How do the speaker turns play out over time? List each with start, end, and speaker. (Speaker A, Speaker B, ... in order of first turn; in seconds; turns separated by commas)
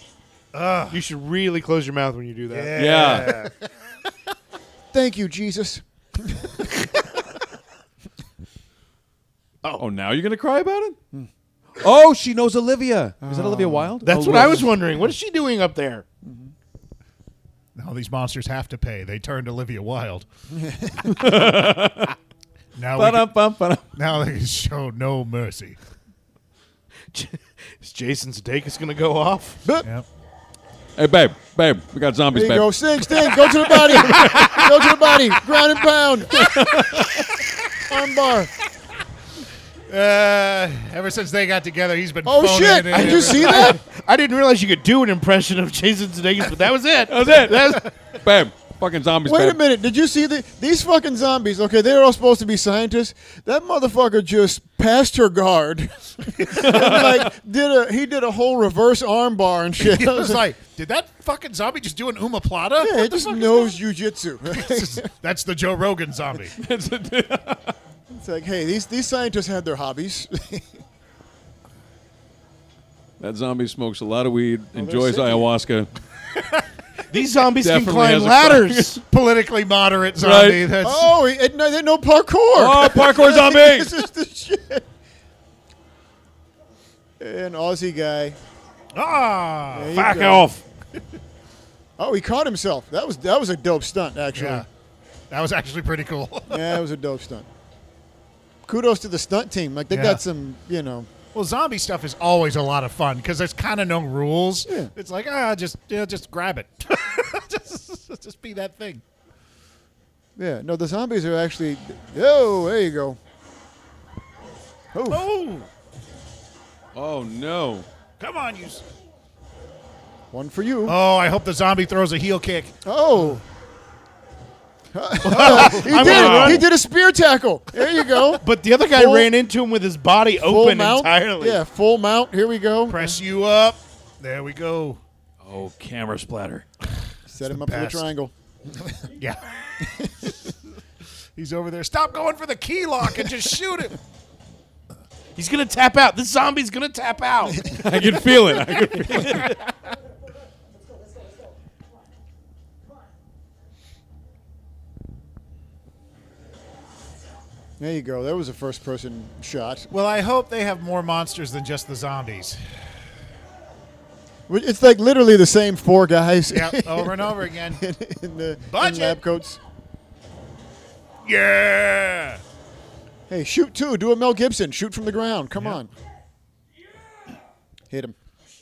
Speaker A: 0.5-1.0, Speaker B: 0.9-3.3, Speaker A: 2.5-3.7, Speaker C: 2.8-3.4, Speaker D: 4.9-6.9, Speaker C: 9.8-11.0, Speaker C: 11.8-14.8, Speaker D: 13.2-14.0, Speaker B: 14.0-16.1, Speaker D: 16.2-16.5, Speaker A: 17.8-20.3, Speaker D: 20.5-21.2, Speaker C: 21.0-22.2, Speaker A: 22.8-23.3, Speaker C: 22.9-23.9, Speaker A: 23.9-25.8, Speaker B: 27.1-29.6, Speaker C: 31.0-33.2, Speaker D: 32.3-37.1, Speaker C: 33.9-34.6, Speaker B: 34.2-34.6, Speaker C: 36.4-37.2, Speaker D: 37.8-38.5, Speaker A: 39.9-43.7, Speaker D: 42.2-43.8, Speaker B: 42.9-47.9, Speaker C: 47.1-49.6, Speaker D: 49.2-60.4, Speaker C: 56.5-57.3, Speaker A: 59.8-63.8, Speaker D: 62.8-65.1, Speaker A: 64.5-66.6, Speaker C: 66.5-67.7, Speaker D: 68.1-70.8, Speaker C: 73.2-75.9, Speaker D: 74.8-75.5, Speaker B: 77.1-79.0, Speaker C: 77.6-79.0, Speaker A: 79.1-81.1, Speaker C: 80.2-80.7, Speaker D: 80.8-84.9, Speaker C: 82.5-84.0, Speaker D: 87.2-88.4, Speaker A: 88.9-90.0, Speaker D: 89.7-90.5, Speaker C: 89.9-90.6, Speaker D: 92.0-94.7, Speaker A: 94.3-94.7, Speaker A: 95.3-96.8, Speaker D: 96.5-97.5, Speaker D: 98.7-101.1, Speaker A: 99.9-100.2, Speaker A: 101.3-109.0, Speaker D: 104.7-104.9, Speaker D: 110.4-113.2, Speaker D: 114.9-115.3, Speaker A: 115.1-115.7, Speaker C: 116.9-117.9, Speaker A: 118.2-118.8, Speaker D: 120.3-121.0, Speaker A: 120.9-123.4, Speaker D: 122.8-123.4, Speaker D: 124.9-129.3, Speaker B: 125.2-126.7, Speaker A: 125.3-126.3, Speaker C: 125.5-126.7, Speaker B: 128.4-131.6, Speaker D: 130.4-133.2, Speaker A: 132.9-135.0, Speaker C: 135.4-136.7, Speaker D: 137.3-138.3, Speaker A: 137.4-138.1, Speaker A: 139.0-139.6, Speaker D: 139.8-140.3, Speaker A: 141.4-144.0, Speaker B: 145.4-147.8, Speaker D: 147.5-148.1, Speaker C: 147.7-149.6, Speaker A: 149.2-149.5, Speaker E: 149.7-151.8, Speaker D: 157.8-159.9, Speaker A: 159.9-162.6, Speaker D: 164.5-169.6, Speaker A: 166.5-167.8, Speaker A: 168.7-169.2, Speaker A: 171.2-172.4, Speaker D: 173.3-175.9, Speaker A: 175.6-175.8, Speaker D: 177.9-178.2